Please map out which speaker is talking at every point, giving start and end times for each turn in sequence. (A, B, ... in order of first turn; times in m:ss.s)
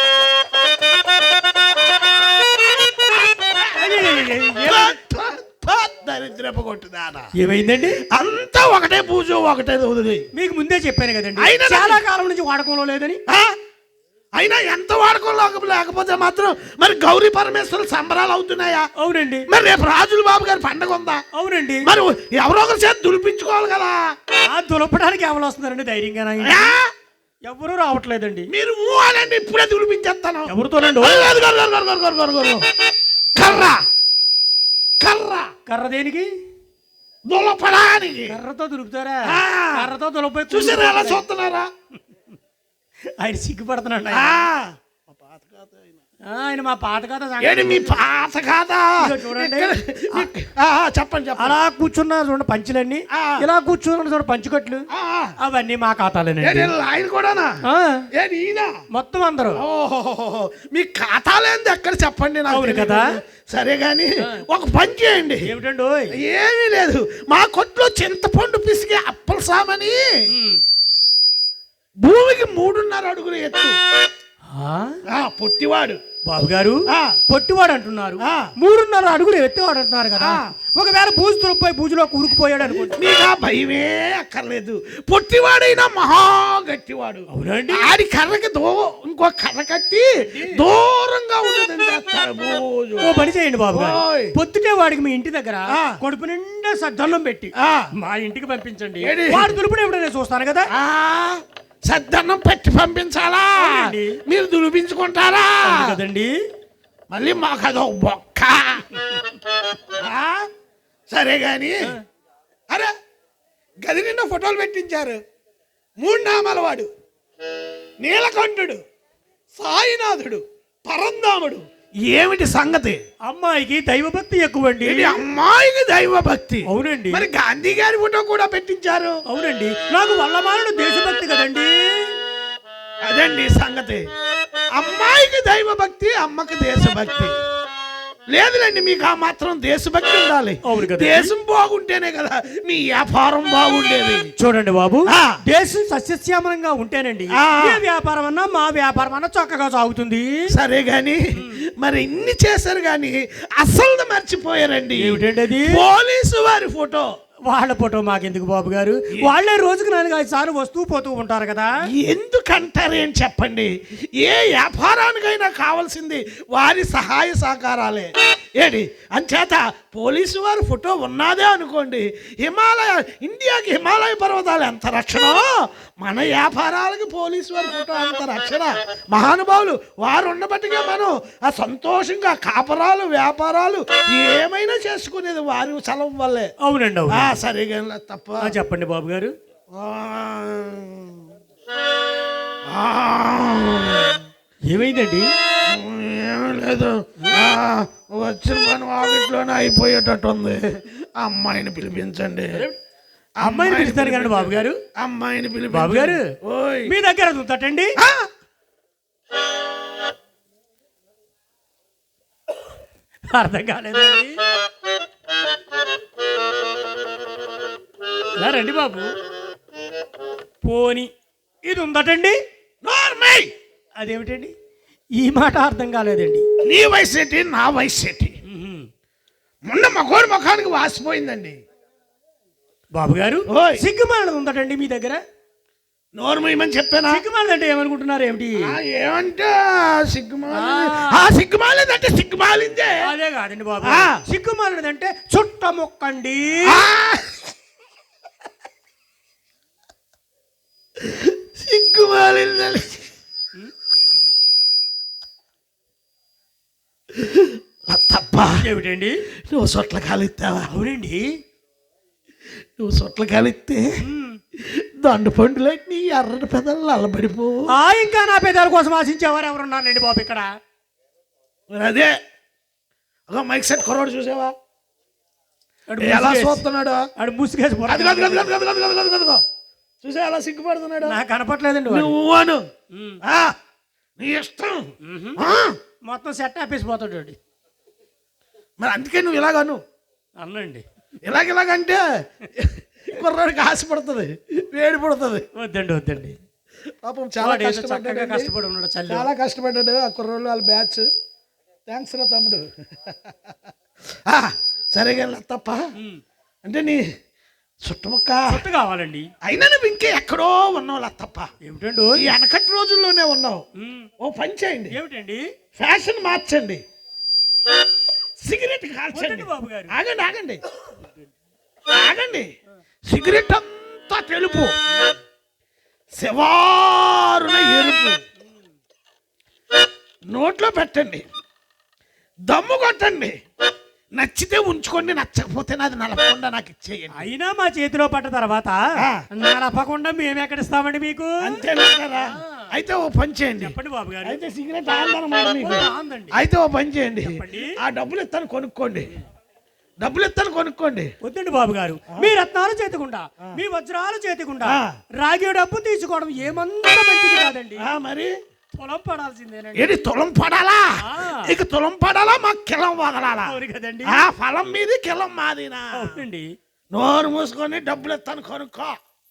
0:03.3-0:07.3 A
0:03.7-0:05.0 B
0:07.4-0:08.0 B
0:08.1-0:10.2 A
0:10.4-0:13.2 B
0:11.4-0:12.0 A
0:13.3-0:13.5 A
0:14.4-0:18.8 A
0:19.0-0:19.5 B
0:19.5-0:21.2 A
0:21.3-0:21.9 B
0:21.8-0:24.0 A
0:24.5-0:26.7 B
0:26.4-0:26.9 A
0:27.5-0:28.5 B
0:28.5-0:32.6 A
0:30.5-0:31.3 B
0:33.4-0:33.8 A
0:35.0-0:35.5 A
0:35.7-0:36.3 B
0:37.3-0:38.3 A
0:38.3-0:41.2 B
0:39.3-0:39.9 A
0:40.5-0:41.7 A
0:43.2-0:44.5 B
0:44.1-0:46.0 A
0:46.3-0:48.0 B
0:47.4-0:51.6 A
0:49.0-0:50.3 B
0:51.4-0:54.8 B
0:53.1-0:53.4 A
0:54.9-0:55.3 A
0:55.4-0:56.7 B
0:56.4-0:57.6 A
0:57.7-0:58.0 B
0:58.1-0:58.7 A
0:58.9-0:59.6 B
0:59.6-1:05.4 A
1:02.5-1:03.0 B
1:05.4-1:06.1 B
1:06.2-1:10.0 A
1:10.3-1:10.6 B
1:12.0-1:13.8 A
1:14.5-1:15.0 B
1:15.1-1:16.0 A
1:16.3-1:23.0 B
1:16.9-1:17.2 A
1:18.2-1:18.5 A
1:20.2-1:20.4 A
1:22.9-1:34.3 A
1:27.3-1:27.9 B
1:30.3-1:30.6 B
1:33.0-1:40.7 B
1:35.7-1:36.0 A
1:37.6-1:37.9 A
1:39.0-1:39.5 A
1:40.7-1:46.0 A
1:43.6-1:44.2 B
1:45.6-1:46.3 B
1:47.1-1:48.8 A
1:49.0-1:49.3 B
1:50.0-1:50.5 A
1:51.1-1:51.8 A
1:53.8-1:55.2 A
1:56.0-1:56.9 A
1:58.0-1:58.8 A
1:59.6-2:03.0 A
2:03.3-2:05.2 B
2:04.8-2:09.2 A
2:06.7-2:07.3 B
2:09.3-2:12.1 B
2:13.1-2:14.0 A
2:14.8-2:17.4 A
2:18.3-2:24.3 A
2:20.6-2:21.3 B
2:24.4-2:30.5 B
2:25.1-2:25.4 A
2:27.4-2:27.8 A
2:30.5-2:37.1 A
2:35.0-2:35.7 B
2:37.5-2:41.7 B
2:42.0-2:55.5 A
2:56.0-3:06.5 A
3:06.6-3:07.3 B
3:07.1-3:08.4 A
3:08.4-3:09.3 B
3:09.7-3:11.3 A
3:12.7-3:14.2 A
3:14.7-3:15.3 B
3:15.7-3:22.7 A
3:23.4-3:26.9 A
3:23.4-3:24.8 B
3:25.7-3:26.3 B
3:26.9-3:28.0 B
3:28.0-3:28.3 A
3:33.3-3:34.4 B
3:38.4-3:39.1 B
3:40.6-3:41.1 B
3:41.6-3:42.4 B
3:42.8-3:43.5 A
3:44.0-3:44.5 B
3:45.2-3:46.4 B
3:46.6-3:48.4 A
3:48.5-3:48.9 B
3:49.7-3:51.6 A
3:52.9-3:55.2 B
3:53.5-3:53.8 A
3:56.2-3:57.2 A
3:57.1-3:58.7 B
3:58.7-4:03.0 A
4:00.5-4:01.3 B
4:03.0-4:06.8 B
4:03.8-4:04.2 A
4:06.7-4:07.4 A
4:11.0-4:13.0 A
4:17.1-4:18.6 A
4:18.6-4:19.2 B
4:19.5-4:20.7 A
4:20.7-4:21.3 B
4:22.8-4:23.9 A
4:24.0-4:24.4 B
4:24.6-4:27.7 A
4:27.7-4:30.5 B
4:31.7-4:32.1 A
4:33.3-4:34.5 A
4:35.9-4:36.6 B
4:36.0-4:37.1 A
4:37.2-4:38.5 B
4:37.9-4:39.4 A
4:40.0-4:41.2 A
4:41.0-4:42.1 B
4:41.9-4:42.6 A
4:42.9-4:43.2 B
4:43.2-4:43.5 A
4:44.2-4:45.8 A
4:45.0-4:45.4 B
4:46.1-4:47.4 B
4:48.8-4:49.8 A
4:50.4-4:50.8 B
4:51.2-4:55.4 A
4:55.6-4:56.4 B
4:57.0-4:58.5 A
4:57.4-4:59.3 B
4:59.1-5:01.1 A
5:01.9-5:03.3 A
5:04.3-5:05.8 A
5:06.6-5:07.0 A
5:07.8-5:08.6 A
5:08.5-5:09.3 B
5:09.5-5:11.5 A
5:11.6-5:12.3 B
5:12.2-5:13.6 A
5:13.8-5:14.1 B
5:14.2-5:15.0 A
5:14.9-5:15.4 B
5:15.8-5:16.8 A
5:18.4-5:20.6 A
5:19.1-5:20.0 B
5:21.9-5:22.5 A
5:23.1-5:24.8 A
5:26.2-5:28.2 A
5:30.3-5:31.2 A
5:32.5-5:33.3 A
5:34.2-5:37.3 A
5:37.2-5:38.8 B
5:39.3-5:41.6 B
5:41.4-5:43.7 A
5:42.4-5:42.7 B
5:43.6-5:44.4 B
5:44.2-5:49.1 A
5:45.6-5:46.4 B
5:47.2-5:47.8 B
5:50.0-5:51.1 A
5:51.2-5:57.9 B
5:54.6-5:54.9 A
5:57.8-5:58.3 A
5:58.8-6:00.1 B
5:59.8-6:03.6 A
6:01.0-6:01.5 B
6:03.5-6:04.2 B
6:04.1-6:06.2 A
6:05.9-6:06.5 B
6:06.9-6:08.9 A